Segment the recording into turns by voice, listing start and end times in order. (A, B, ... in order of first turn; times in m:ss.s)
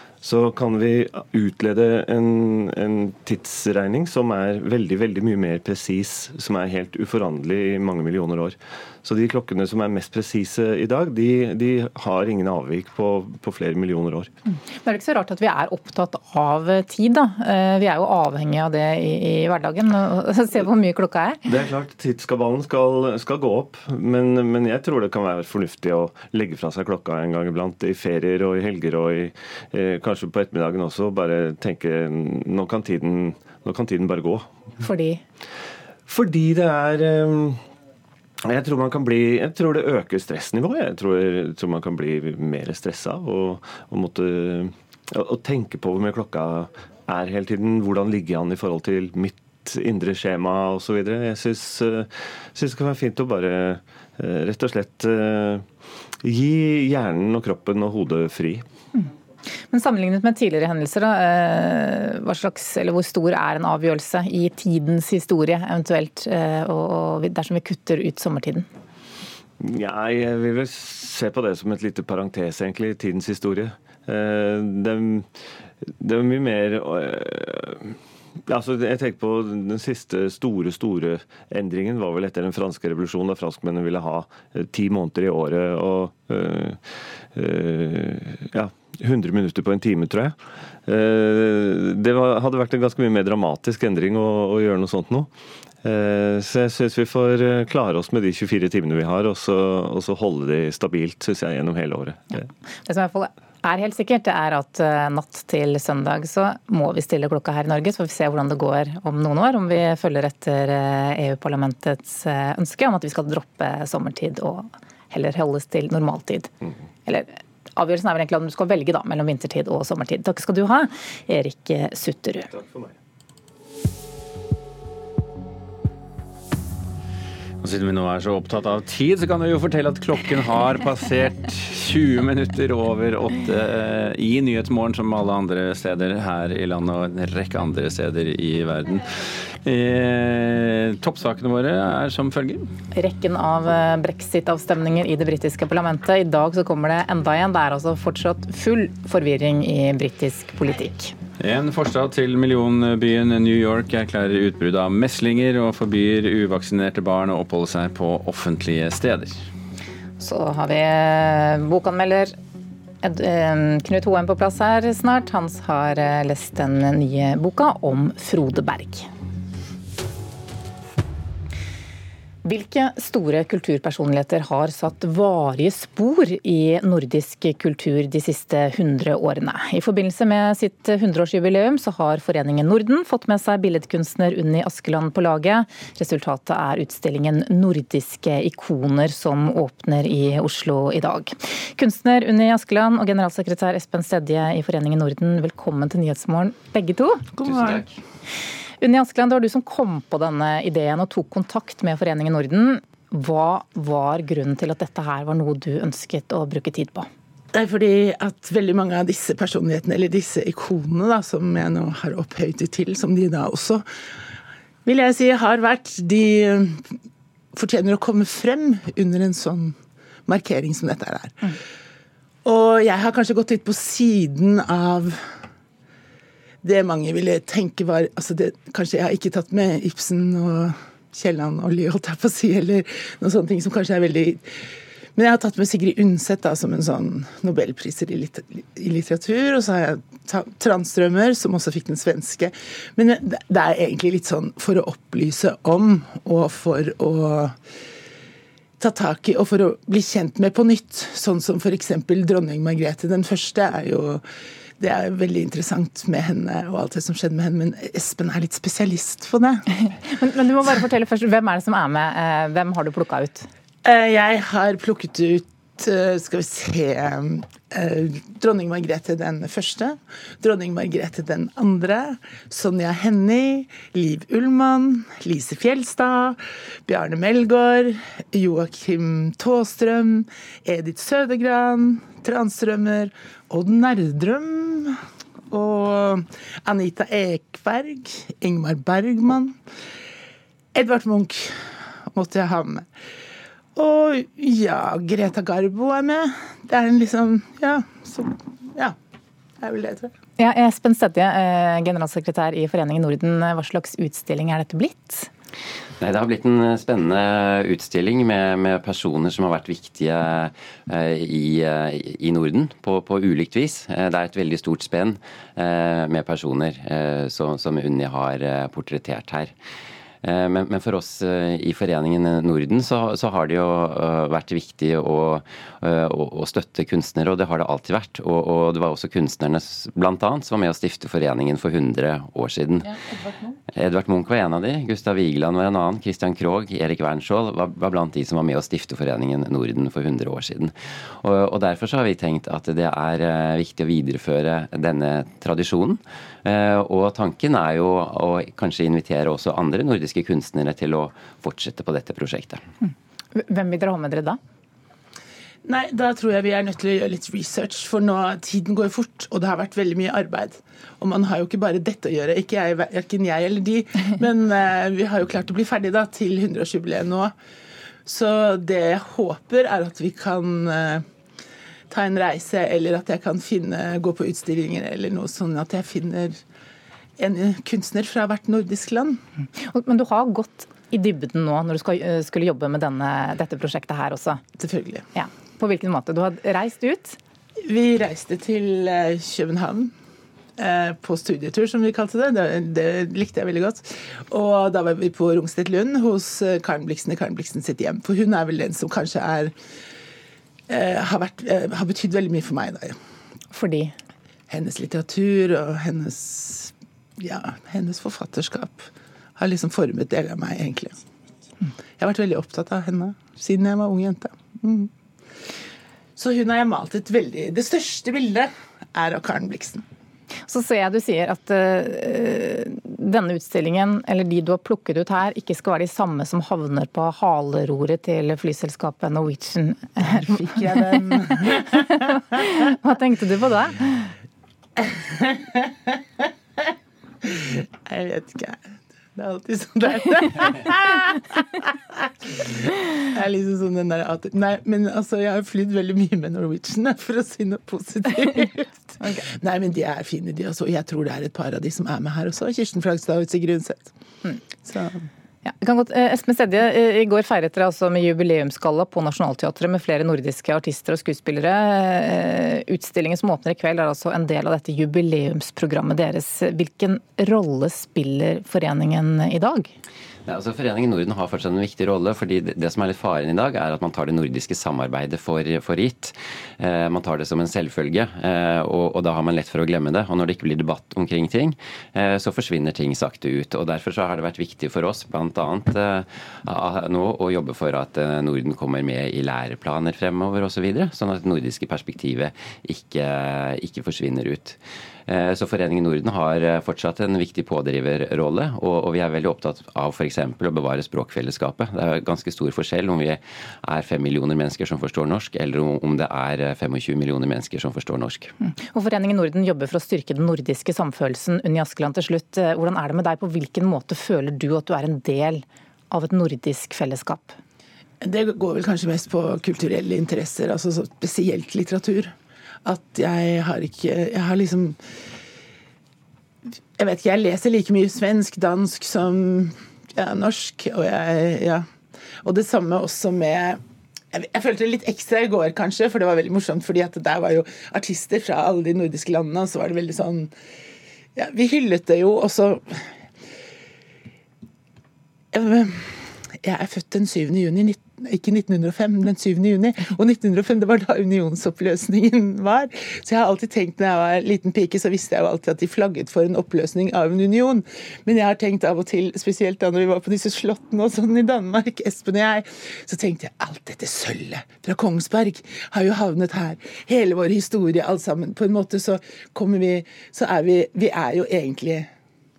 0:00.2-0:14.3 A
0:14.5-0:21.4 B
0:21.4-0:34.5 A
0:34.8-0:35.2 B
0:36.1-0:37.6 A
0:38.4-0:55.6 A
0:56.2-0:58.6 A
0:59.7-1:08.7 B
1:09.6-1:15.3 A
1:15.8-1:35.3 A
1:35.8-1:42.5 A
1:42.8-1:56.5 B
1:57.0-2:02.5 B
2:02.6-2:02.9 A
2:07.6-2:22.7 C
2:22.9-2:31.1 B
2:31.4-2:39.4 C
2:40.2-2:42.3 B
2:43.0-2:49.1 B
2:52.4-3:17.3 B
3:17.3-3:17.9 D
3:18.8-3:27.1 B
3:27.5-3:33.8 D
3:34.8-3:36.8 D
3:37.5-3:41.6 D
3:42.4-3:45.3 D
3:46.6-3:54.5 D
3:55.1-4:07.6 D
4:08.8-4:14.2 D
4:14.8-4:19.6 D
4:19.8-4:23.5 B
4:23.8-4:45.0 D
4:45.5-4:49.6 D
4:50.7-4:52.9 D
4:53.7-4:59.0 D
4:59.6-5:00.1 D
5:00.4-5:05.3 B
5:06.0-5:19.5 E
5:20.2-5:33.0 E
5:33.1-5:33.6 D
5:33.7-5:52.6 E
5:52.8-5:54.4 B
5:55.6-6:07.3 D
6:08.0-6:11.0 D
6:11.9-6:16.4 D
6:17.2-6:19.2 D
6:19.6-6:24.4 B
6:24.6-6:25.0 D
6:25.1-6:27.2 B
6:27.6-6:29.9 D
6:30.6-6:39.5 D
6:40.7-6:43.0 D
6:43.5-6:43.9 B
6:44.5-6:51.0 D
6:52.0-6:54.9 D
6:56.2-6:59.8 D
7:00.5-7:14.1 B
7:10.1-7:11.8 D
7:14.8-7:15.9 D
7:17.2-7:33.9 D
7:34.6-7:35.0 D
7:35.4-7:49.7 B
7:50.2-8:28.3 E
8:28.4-8:37.4 B
8:38.0-8:42.1 D
8:42.6-8:44.8 D
8:46.8-8:51.7 D
8:52.2-8:53.6 D
8:54.1-9:00.3 D
9:01.1-9:02.9 D
9:05.3-9:31.9 D